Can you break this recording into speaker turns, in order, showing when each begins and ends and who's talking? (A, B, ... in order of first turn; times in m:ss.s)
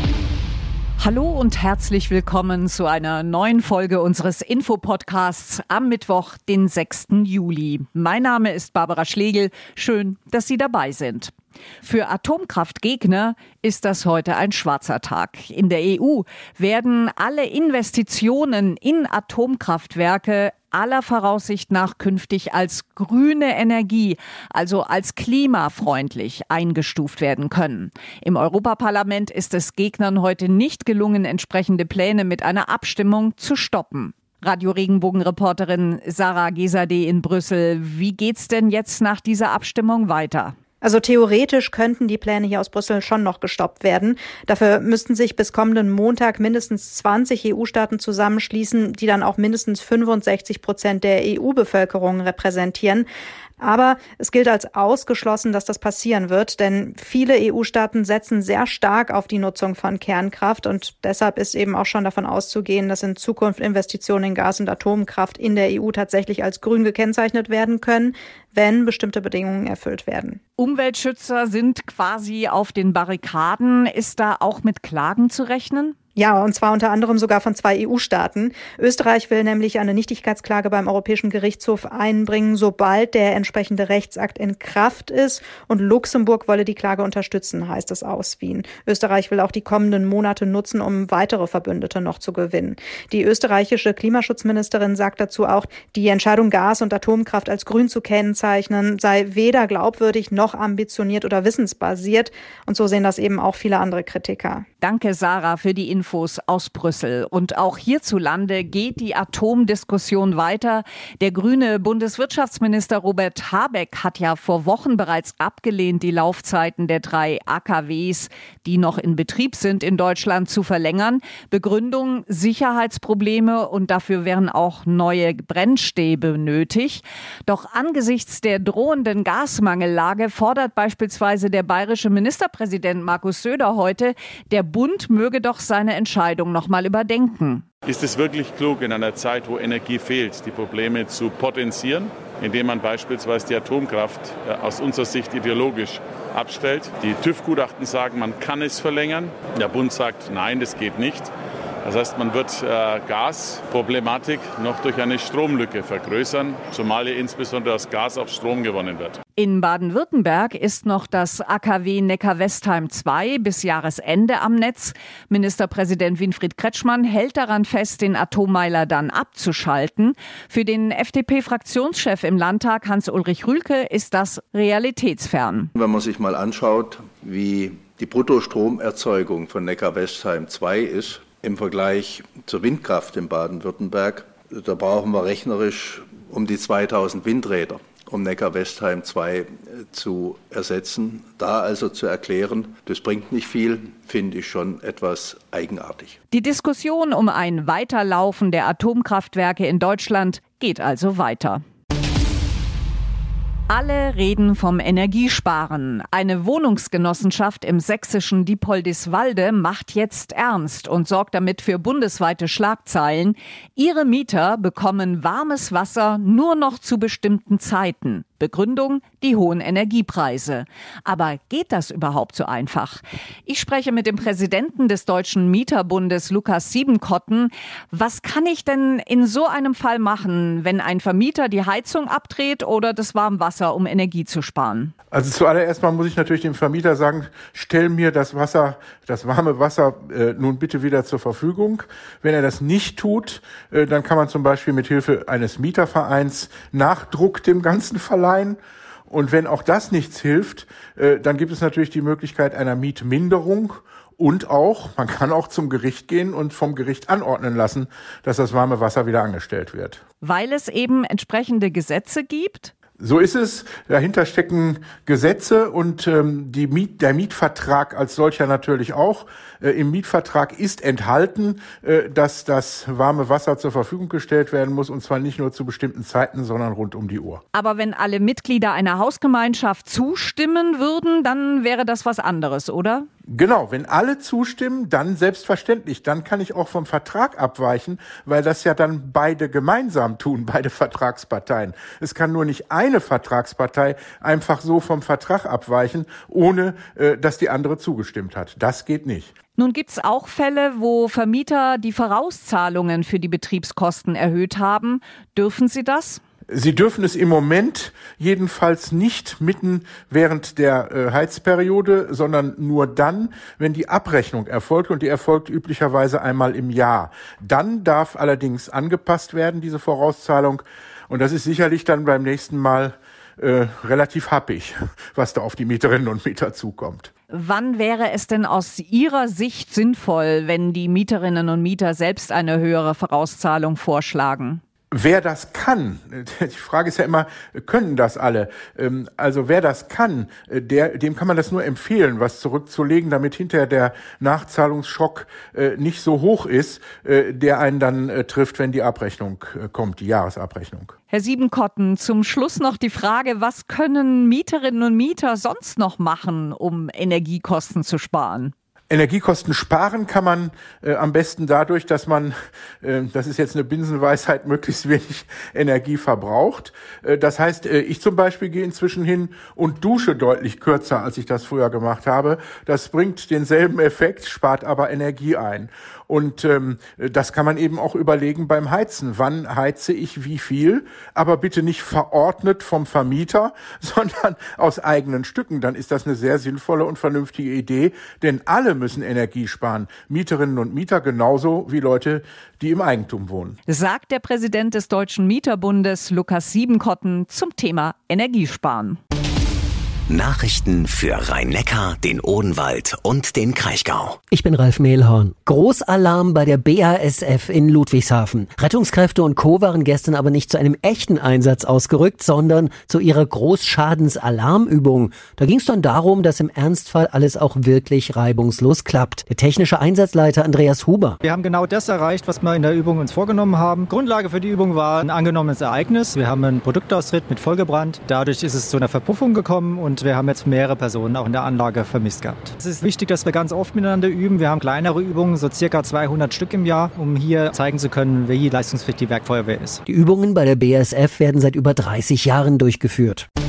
0:01.0-0:11.3 A
0:11.8-0:40.5 A
0:40.8-0:53.1 B
0:53.6-1:10.4 B
1:10.6-1:16.0 A
1:16.2-1:44.6 B
1:44.8-2:17.6 A
2:17.8-2:31.3 C
2:31.8-2:39.2 C
2:39.4-2:55.7 A
2:55.8-3:16.2 D
3:16.3-3:21.6 A
3:23.7-3:54.9 A
3:55.1-4:08.6 E
4:09.1-4:20.0 E
4:20.2-4:22.7 A
4:23.0-4:37.4 E
4:37.5-4:43.0 A
4:43.3-4:59.3 E
4:59.6-5:06.2 A
5:06.5-5:27.1 E
5:27.3-5:34.6 A
5:34.9-5:50.9 E
5:51.1-5:58.5 A
5:58.9-6:33.6 E
6:33.7-6:39.0 A
6:40.1-6:44.2 F
6:44.3-7:01.2 G
7:01.2-7:19.8 H
7:19.8-7:23.2 G